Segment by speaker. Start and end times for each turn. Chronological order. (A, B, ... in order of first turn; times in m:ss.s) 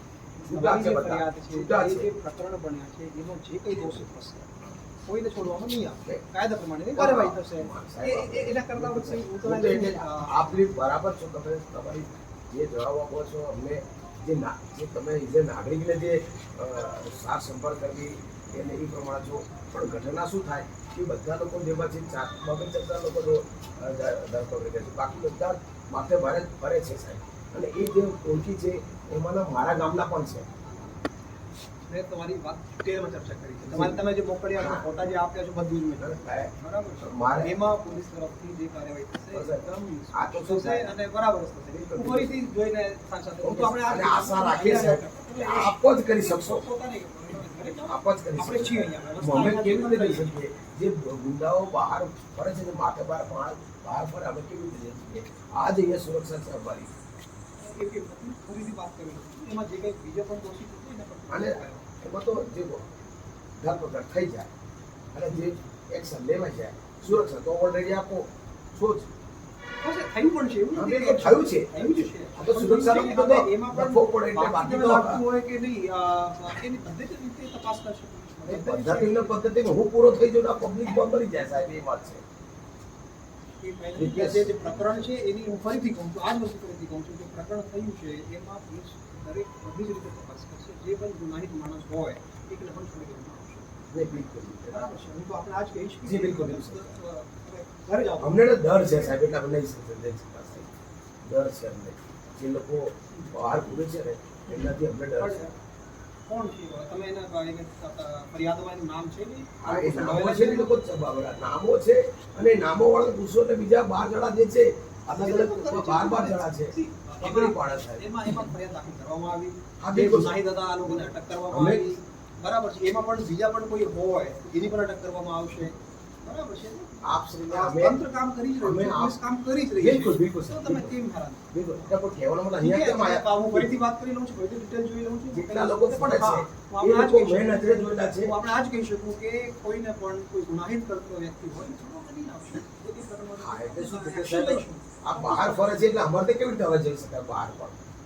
0:00.4-0:10.6 A
0:00.4-0:02.1 B
0:03.8-0:04.1 B
0:07.0-0:30.5 B
0:31.9-0:50.3 A
0:33.6-0:34.0 B
0:34.5-0:34.9 B
0:36.0-0:37.6 B
0:39.3-0:41.0 B
0:41.7-0:42.4 B
0:43.4-0:46.6 B
0:47.8-0:56.9 B
0:57.6-1:01.9 A
1:01.3-1:02.9 B
1:03.6-1:04.5 B
1:05.1-1:09.1 B
1:09.8-1:19.4 A
1:10.7-1:15.2 B
1:18.4-1:22.2 B
1:23.6-1:33.7 A
1:24.0-1:25.1 B
1:33.9-1:34.9 B
1:34.7-1:39.2 A
1:36.0-1:36.9 B
1:38.2-1:45.4 B
1:44.5-1:45.5 A
1:46.3-1:50.7 A
1:49.6-1:58.1 B
1:55.1-2:11.9 A
1:59.8-2:01.8 B
2:07.0-2:08.0 B
2:08.6-2:09.2 B
2:09.8-2:10.9 B
2:11.5-2:13.7 B
2:12.6-2:26.0 A
2:15.3-2:18.3 B
2:23.4-2:27.8 B